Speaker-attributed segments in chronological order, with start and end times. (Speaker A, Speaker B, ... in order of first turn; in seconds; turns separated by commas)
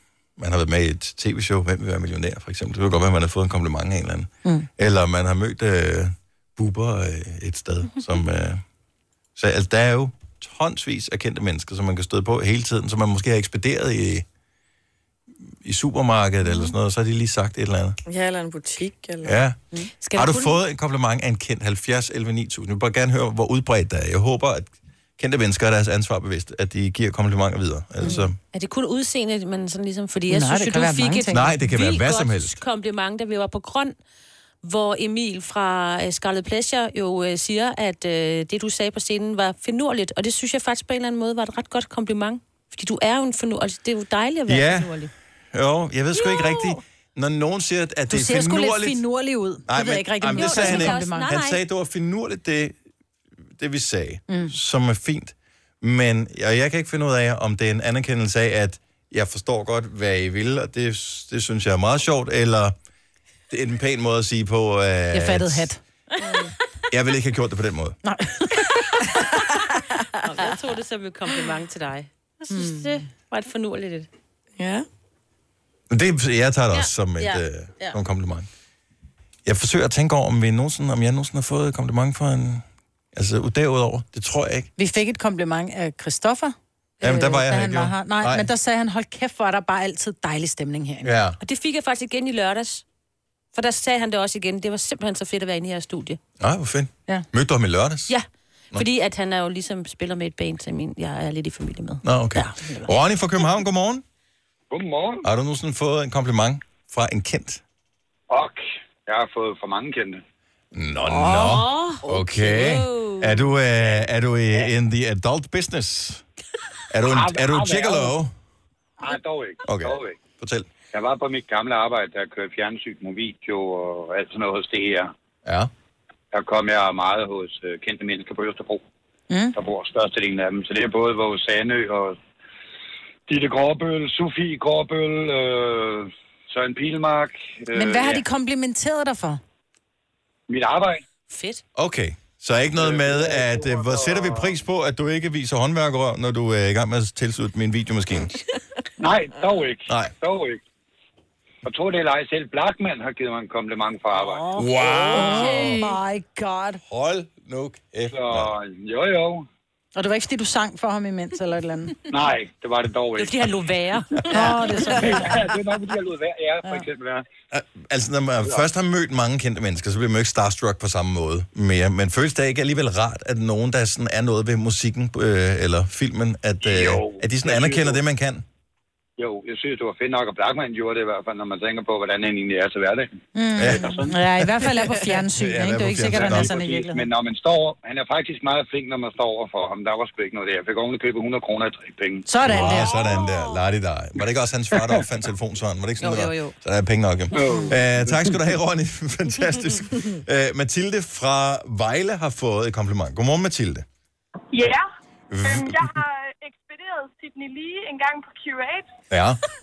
Speaker A: 0.4-8.6, Speaker A: 9.3-14.2, Speaker A: 15.6-18.0, Speaker B: 18.1-19.4, Speaker A: 19.2-19.6, Speaker C: 20.0-20.5, Speaker A: 20.1-28.4, Speaker C: 28.5-33.9, Speaker D: 30.3-31.5, Speaker A: 31.3-32.5, Speaker C: 34.6-45.1, Speaker A: 44.5-45.0, Speaker A: 45.5-49.0, Speaker C: 46.2-46.8, Speaker D: 48.1-51.3, Speaker A: 49.7-52.8, Speaker C: 50.3-51.6, Speaker A: 53.6-62.7, Speaker D: 54.3-54.5, Speaker A: 63.5-65.7, Speaker D: 65.1-65.8, Speaker B: 66.2-66.5, Speaker A: 66.9-68.0, Speaker D: 68.0-68.9, Speaker C: 70.2-74.1, Speaker D: 72.5-73.0, Speaker B: 74.6-74.8, Speaker A: 75.9-78.5, Speaker C: 76.7-78.0, Speaker A: 79.5-84.7, Speaker D: 84.8-91.1, Speaker A: 87.0-88.5, Speaker A: 91.0-91.4, Speaker C: 91.4-92.8, Speaker C: 93.5-96.2, Speaker A: 96.4-98.1, Speaker C: 98.1-102.0, Speaker A: 102.0-104.0, Speaker D: 102.3-102.8, Speaker E: 104.7-105.2, Speaker A: 105.2-107.6, Speaker E: 108.3-110.2, Speaker A: 110.7-116.2, Speaker B: 111.2-111.5, Speaker C: 111.3-113.5, Speaker A: 116.9-118.3, Speaker E: 117.0-118.2, Speaker E: 119.0-120.2, Speaker A: 119.6-120.7, Speaker E: 120.9-125.1, Speaker E: 126.3-128.8, Speaker D: 129.3-129.6, Speaker E: 129.5-132.2, Speaker E: 133.3-138.2, Speaker D: 137.7-139.4, Speaker E: 140.5-141.0, Speaker C: 141.3-141.6, Speaker A: 141.7-148.3, Speaker E: 149.0-150.6, Speaker A: 149.9-150.1, Speaker E: 151.6-154.5, Speaker A: 154.5-155.7, Speaker D: 154.6-156.8, Speaker C: 155.2-155.7, Speaker A: 156.9-158.5, Speaker E: 158.1-159.5, Speaker D: 159.9-162.0, Speaker E: 162.1-163.5, Speaker C: 163.2-165.1, Speaker D: 164.3-165.3, Speaker E: 164.8-167.2, Speaker A: 167.5-178.4, Speaker E: 176.6-178.0, Speaker E: 179.2-184.1, Speaker D: 183.3-187.1, Speaker A: 183.6-186.6, Speaker E: 186.1-192.7, Speaker D: 192.3-192.9, Speaker A: 192.4-203.8, Speaker C: 192.7-193.6, Speaker C: 196.0-196.5, Speaker E: 197.4-197.7, Speaker F: 204.5-204.8, Speaker A: 205.3-206.0, Speaker F: 205.4-208.9, Speaker A: 209.1-209.4